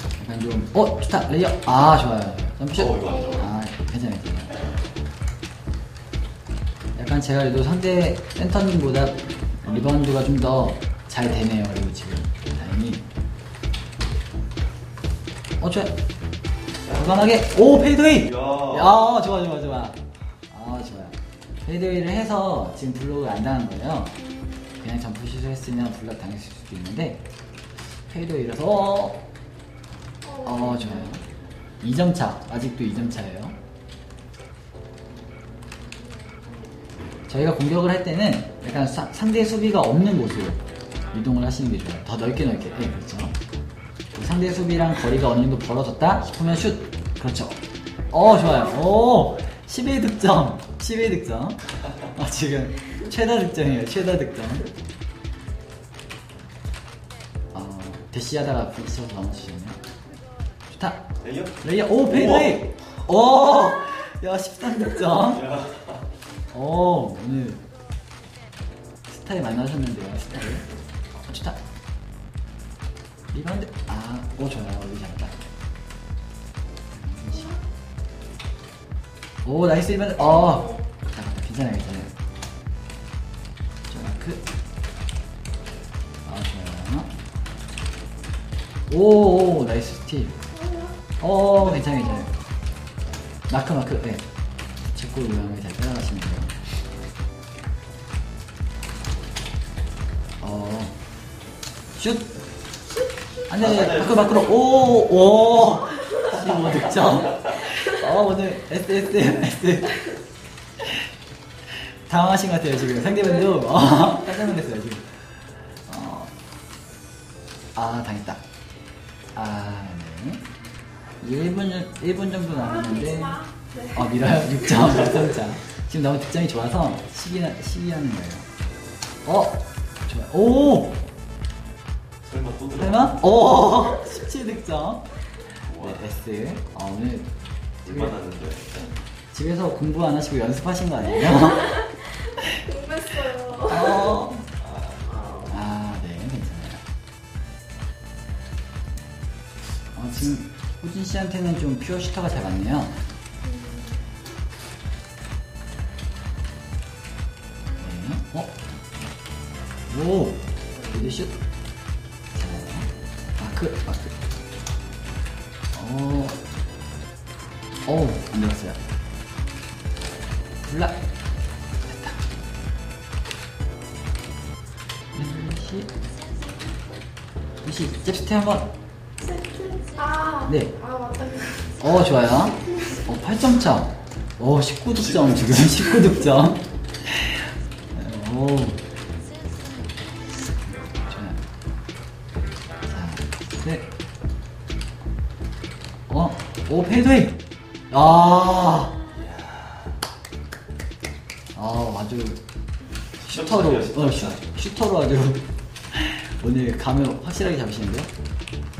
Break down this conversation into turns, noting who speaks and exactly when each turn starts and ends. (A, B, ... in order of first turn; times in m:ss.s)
0:00.2-0:04.6 A
0:02.7-0:03.5 B
0:03.0-0:03.5 C
0:06.9-0:13.0 A
0:15.6-0:16.0 A
0:16.8-0:19.0 B
0:16.9-0:20.0 A
0:20.5-0:24.1 A
0:24.8-0:27.2 A
0:27.9-0:29.2 A
0:30.2-0:31.1 C
0:30.4-0:31.2 A
0:31.8-0:33.6 A
0:37.3-0:40.6 A
0:41.1-0:43.3 A
0:44.1-0:47.6 A
0:48.1-0:54.7 A
0:57.5-0:59.8 A
1:00.7-1:01.0 A
1:01.2-1:02.6 B
1:01.6-1:05.4 A
1:05.3-1:06.0 B
1:06.5-1:07.6 A
1:09.1-1:10.6 A
1:11.2-1:11.6 A
1:13.3-1:15.5 A
1:16.9-1:17.5 A
1:17.3-1:17.6 C
1:19.4-1:22.1 A
1:20.2-1:20.8 C
1:23.9-1:24.4 A
1:26.2-1:27.1 A
1:28.9-1:30.4 A
1:30.5-1:31.0 C
1:31.2-1:32.3 A
1:31.8-1:32.2 C
1:33.5-1:34.2 A
1:34.9-1:36.5 A
1:40.4-1:41.0 A
1:42.0-1:42.3 A
1:43.5-1:50.0 A
1:43.6-1:44.5 B
1:50.8-1:51.0 A
1:51.7-1:56.3 A
1:53.0-1:53.4 C
1:57.8-1:58.4 A
1:59.3-2:00.4 A
2:01.2-2:08.4 A
2:02.5-2:04.2 C
2:09.2-2:11.0 A
2:12.2-2:13.2 B
2:12.8-2:15.0 A
2:15.7-2:16.1 B
2:15.8-2:17.3 A
2:17.8-2:18.9 B
2:19.3-2:21.9 A
2:21.3-2:24.2 C
2:23.6-2:24.5 A
2:24.6-2:25.0 B
2:25.0-2:25.5 C
2:25.5-2:26.8 A
2:29.9-2:32.9 A
2:33.4-2:34.1 C
2:37.8-2:38.5 A
2:39.9-2:41.3 A
2:40.8-2:41.2 C
2:42.3-2:44.1 A
2:45.7-2:46.4 A
2:47.8-2:48.8 A
2:50.7-2:50.9 A
2:51.8-2:52.2 A
2:55.1-2:55.9 A
2:57.6-2:58.7 A
2:59.2-3:03.0 C
3:00.4-3:00.7 A
3:01.8-3:08.8 A
3:05.2-3:05.6 B
3:10.6-3:11.4 A
3:12.9-3:13.9 A
3:16.1-3:17.4 A
3:17.9-3:19.0 A
3:19.0-3:20.0 B
3:21.5-3:22.4 A
3:23.2-3:24.4 B
3:23.2-3:28.1 A